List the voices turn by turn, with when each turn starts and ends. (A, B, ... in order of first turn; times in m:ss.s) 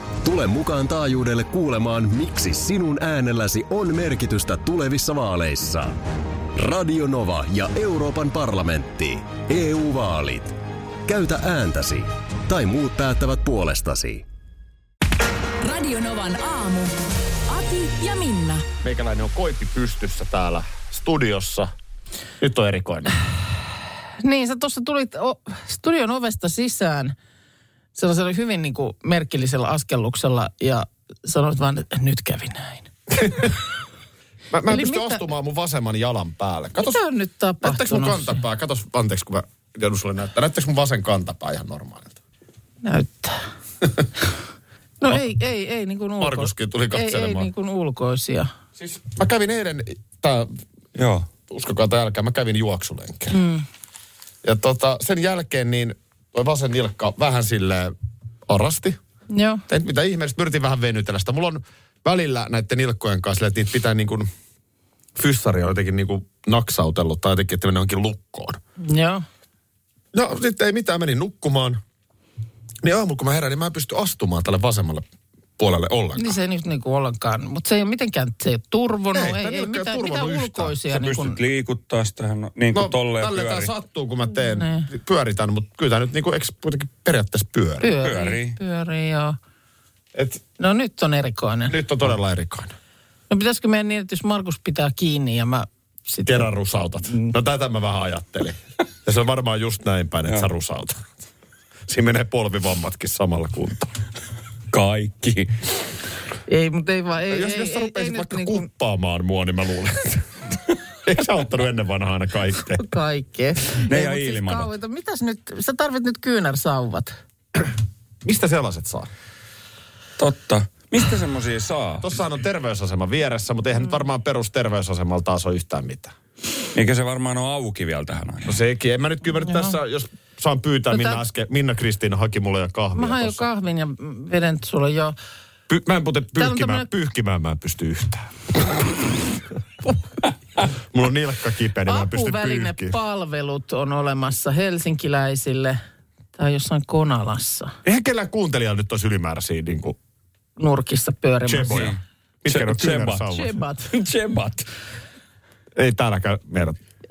0:00.2-0:06.0 A
0:06.5-0:14.2 A
0:15.6-0:16.9 B
0:17.5-0:18.6 B
0:18.8-0:21.7 C
0:22.4-0:23.2 C
0:24.2-0:27.1 D
0:27.9-0:32.9 D
0:33.2-0:33.5 C
0:34.5-0:37.0 C
0:34.7-0:35.2 D
0:36.8-0:38.4 D
0:37.6-0:42.2 C
0:42.8-0:43.4 D
0:45.0-0:48.5 D
0:46.2-0:47.5 C
0:48.8-0:50.6 C
0:51.0-0:51.3 E
0:51.5-0:53.4 C
0:53.3-0:53.6 D
0:54.4-0:57.9 C
0:58.5-0:59.0 C
0:59.3-0:59.6 D
0:59.7-1:04.3 C
1:05.2-1:08.6 C
1:08.8-1:09.2 D
1:10.1-1:11.8 C
1:12.8-1:15.0 C
1:15.6-1:16.4 C
1:16.2-1:21.4 D
1:19.1-1:20.7 C
1:20.9-1:23.7 E
1:22.7-1:27.9 C
1:24.5-1:24.9 D
1:27.8-1:29.4 D
1:28.0-1:28.6 E
1:30.1-1:30.4 C
1:30.6-1:31.8 D
1:31.7-1:32.7 C
1:33.3-1:36.5 D
1:36.2-1:41.1 C
1:37.1-1:37.3 D
1:41.9-1:43.9 C
1:44.7-1:45.5 E
1:46.5-1:48.6 D
1:47.3-1:50.2 C
1:51.0-1:52.8 C
1:52.8-1:57.1 D
1:53.8-1:54.7 E
1:58.2-1:59.1 C
2:00.2-2:02.1 E
2:02.0-2:06.1 C
2:06.7-2:08.6 E
2:08.4-2:13.4 C
2:10.9-2:11.2 D
2:12.9-2:15.1 D
2:15.7-2:18.8 C
2:16.4-2:16.9 D
2:20.9-2:23.0 C
2:21.8-2:25.8 D
2:26.4-2:27.7 D
2:27.8-2:30.0 C
2:30.6-2:31.9 D
2:31.4-2:33.6 C
2:31.7-2:33.3 E
2:33.3-2:33.9 D
2:33.9-2:34.7 E
2:35.8-2:36.8 C